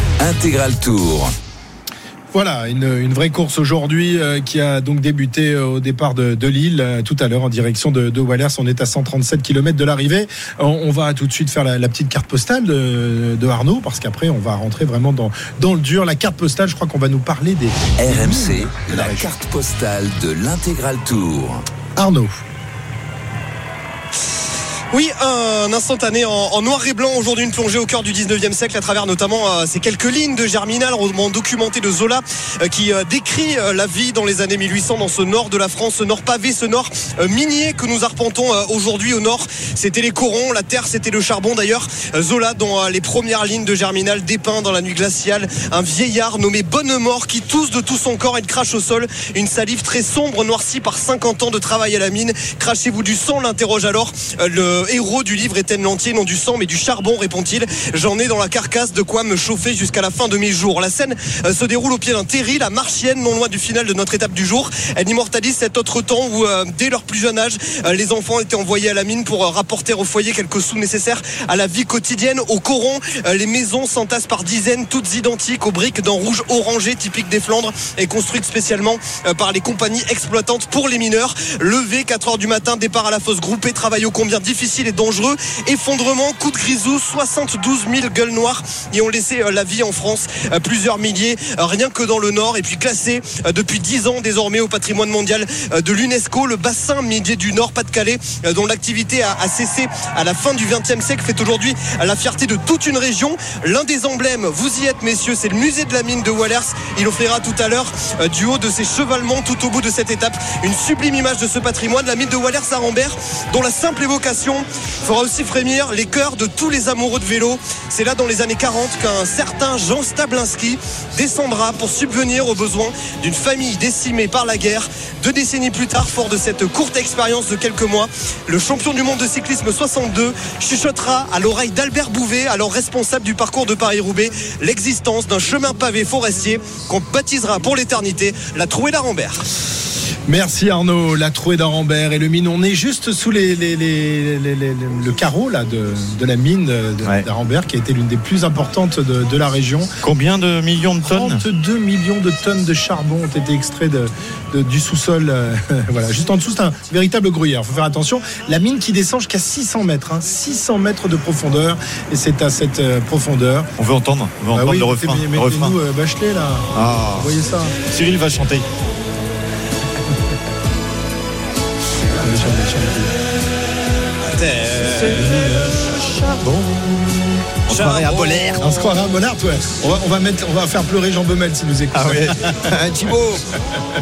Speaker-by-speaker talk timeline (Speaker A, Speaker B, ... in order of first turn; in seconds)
Speaker A: 0.2-1.3, 18.0-21.6
Speaker B: 2.3-19.3, 22.0-22.4, 140.3-150.0, 151.1-163.7, 164.5-167.8, 172.2-173.2, 174.9-176.9, 178.6-182.7
Speaker C: 24.9-139.5, 174.3-175.2, 177.7-178.7
Speaker D: 150.0-151.4, 163.8-165.8, 166.7-167.3, 167.9-168.7, 177.7-178.7, 181.9-183.5